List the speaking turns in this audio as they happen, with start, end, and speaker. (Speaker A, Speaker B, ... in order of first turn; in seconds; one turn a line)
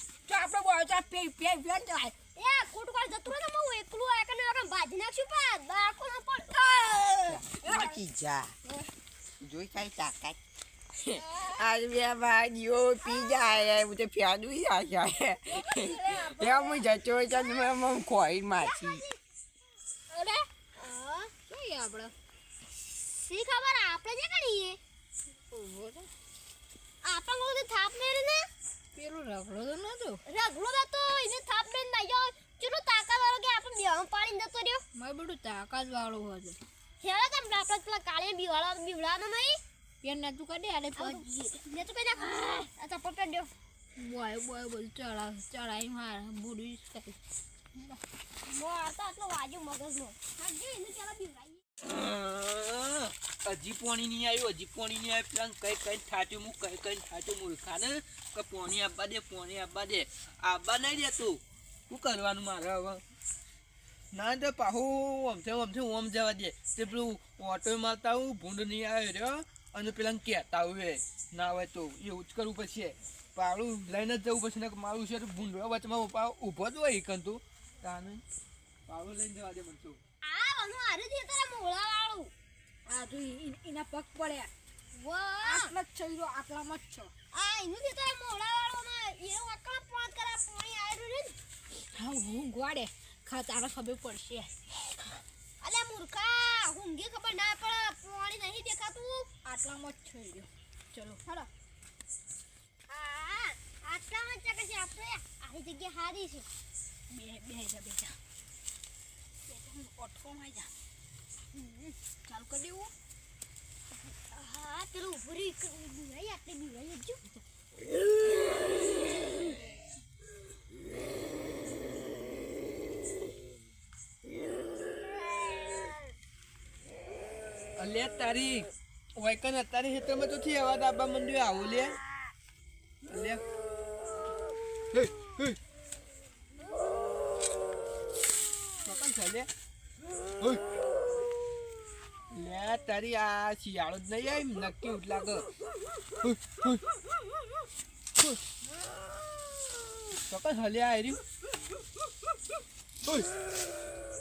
Speaker A: 0.3-2.1
Speaker B: 2.4-6.6
Speaker A: 6.5-8.0
Speaker C: 7.2-8.5
Speaker C: 9.4-10.4
Speaker C: 11.0-19.0
Speaker B: 11.2-11.7
Speaker B: 13.0-13.3
Speaker A: 15.5-16.9
Speaker B: 17.3-17.7
Speaker B: 18.6-19.2
Speaker B: 20.1-21.3
Speaker A: 21.5-22.1
Speaker B: 23.1-24.8
Speaker A: 25.5-26.1
Speaker B: 27.1-28.4
Speaker A: 28.9-30.2
Speaker B: 30.3-34.8
Speaker A: 35.0-36.6
Speaker B: 37.0-39.6
Speaker A: 40.0-41.2
Speaker B: 41.0-43.5
Speaker A: 44.0-47.2
Speaker B: 48.4-51.6
Speaker D: 51.8-63.0
Speaker D: 64.1-78.2
Speaker D: 78.9-80.0
Speaker B: 80.2-82.3
Speaker A: 82.9-84.5
Speaker B: 85.0-85.7
Speaker A: 85.4-87.1
Speaker B: 87.3-91.4
Speaker A: 91.9-94.5
Speaker B: 95.6-99.3
Speaker A: 99.5-101.2
Speaker B: 101.2-101.5
Speaker B: 102.9-106.5
Speaker A: 107.1-108.2
Speaker A: 109.5-110.7
Speaker B: 111.5-112.0
Speaker A: 112.3-112.9
Speaker B: 114.3-117.2
Speaker D: 127.8-132.0
Speaker D: 133.1-133.4
Speaker D: 134.9-135.6
Speaker D: 138.8-139.5
Speaker D: 142.3-145.5
Speaker D: 146.2-146.8
Speaker D: 150.3-151.2